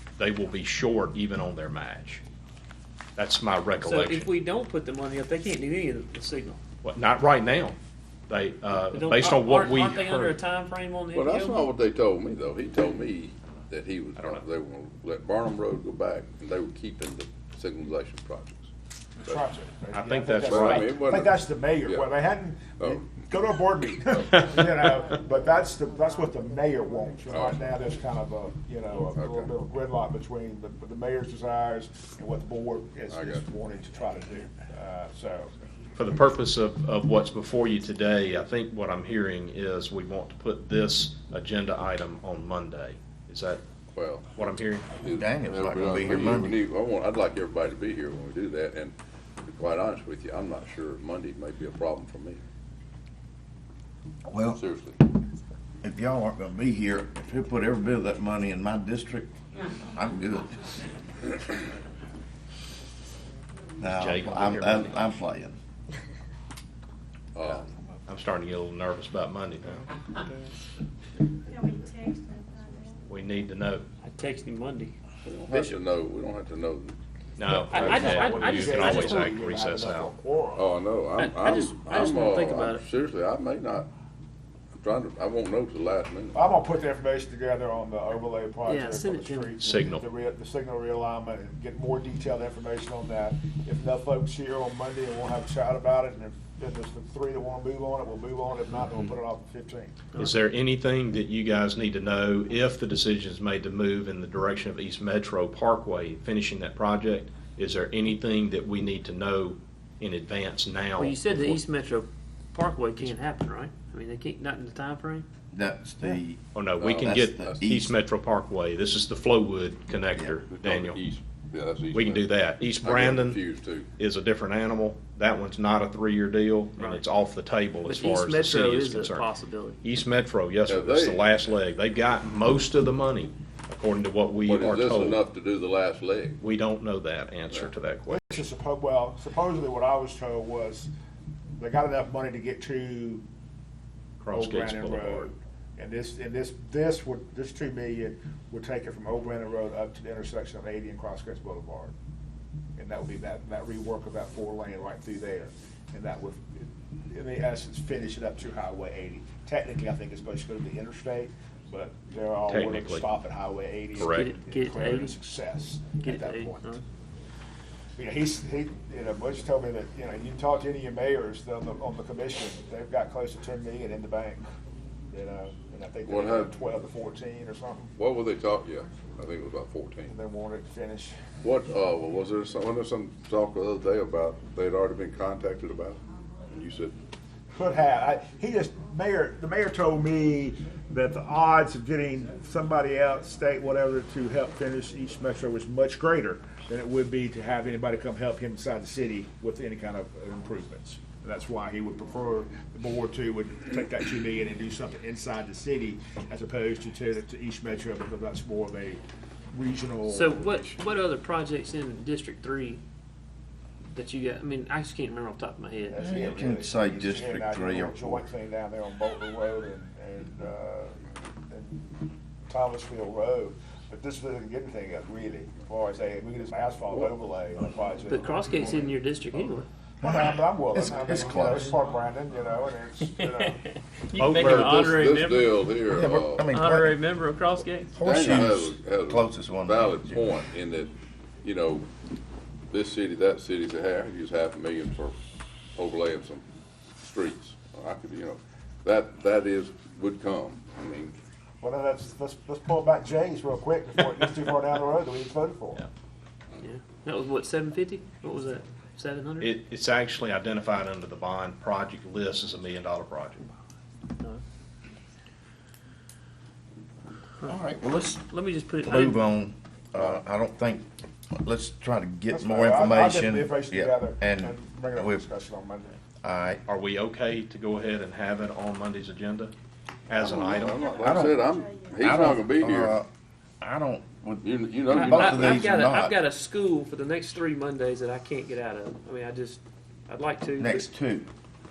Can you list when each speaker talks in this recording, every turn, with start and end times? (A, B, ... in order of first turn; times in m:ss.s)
0:00.2-0:02.2 A
0:03.2-0:04.3 A
0:03.8-0:06.6 B
0:06.8-0:07.8 A
0:08.3-0:10.4 A
0:08.9-0:11.7 B
0:11.1-0:18.7 C
0:14.2-0:14.4 A
0:19.2-0:35.5 D
0:19.9-0:21.0 A
0:20.4-0:22.1 C
0:22.8-0:23.1 C
0:27.3-0:27.7 C
0:29.1-0:29.5 C
0:33.1-0:33.4 C
0:36.0-0:43.6 A
0:43.9-0:44.3 C
0:44.4-0:44.9 A
0:45.0-0:52.4 C
0:45.1-0:46.6 E
0:54.2-0:54.6 E
0:54.5-0:55.0 C
0:55.8-1:00.8 E
1:03.8-1:05.6 E
1:03.9-1:05.0 A
1:07.4-1:07.7 C
1:08.1-1:09.9 A
1:11.5-1:13.0 F
1:13.1-1:13.8 A
1:14.0-1:15.0 B
1:15.2-1:17.0 C
1:17.4-1:20.1 A
1:17.5-1:19.4 B
1:17.7-1:20.7 D
1:20.6-1:23.9 C
1:21.2-1:22.8 B
1:24.8-1:26.4 C
1:26.3-1:40.0 D
1:28.6-1:29.6 B
1:29.6-1:30.0 A
1:40.2-1:51.6 A
1:51.0-1:55.3 B
1:55.5-1:58.0 E
1:56.6-2:01.0 A
1:56.8-1:57.6 C
2:00.2-2:00.4 E
2:00.5-2:02.3 C
2:01.9-2:03.4 A
2:02.8-2:03.9 C
2:04.0-2:09.3 A
2:06.8-2:07.1 B
2:07.8-2:09.8 B
2:09.8-2:15.2 A
2:10.7-2:11.4 C
2:14.4-2:16.4 C
2:16.4-2:18.4 A
2:18.1-2:20.9 D
2:21.6-2:23.2 D
2:24.2-2:25.3 A
2:24.3-2:31.9 D
2:32.8-2:46.8 D
2:42.5-2:43.1 A
2:44.0-2:44.3 A
2:44.1-2:45.2 B
2:46.0-2:46.8 B
2:48.0-2:54.4 D
2:55.1-2:57.9 D
2:56.1-2:56.5 C
2:58.0-3:00.1 C
3:00.1-3:01.2 D
3:01.4-3:06.9 C
3:07.5-3:29.0 D
3:29.5-3:30.7 D
3:30.1-3:32.8 B
3:33.9-3:36.0 B
3:35.9-3:48.9 D
3:36.0-3:38.2 E
3:48.1-3:49.7 B
3:50.0-3:51.7 E
3:50.0-3:53.6 D
3:53.1-3:55.6 B
3:54.2-3:55.1 A
3:54.4-3:56.6 C
3:55.9-3:57.0 E
3:56.5-3:58.0 B
3:57.9-4:00.4 E
3:58.0-4:01.9 C
4:02.7-4:05.2 C
4:05.8-4:06.4 C
4:07.0-4:11.2 C
4:11.6-4:15.8 D
4:16.6-4:19.5 B
4:19.4-4:23.5 A
4:27.5-4:28.2 E
4:28.2-4:29.3 B
4:28.8-4:35.3 E
4:32.3-4:36.0 D
4:36.2-4:36.6 E
4:36.7-4:39.5 A
4:40.1-4:40.9 A
4:40.2-4:43.0 C
4:40.2-4:42.1 F
4:41.0-4:41.4 E
4:42.0-4:43.1 E
4:43.6-4:46.2 E
4:44.4-4:45.6 C
4:44.9-4:50.9 B
4:50.6-4:51.3 E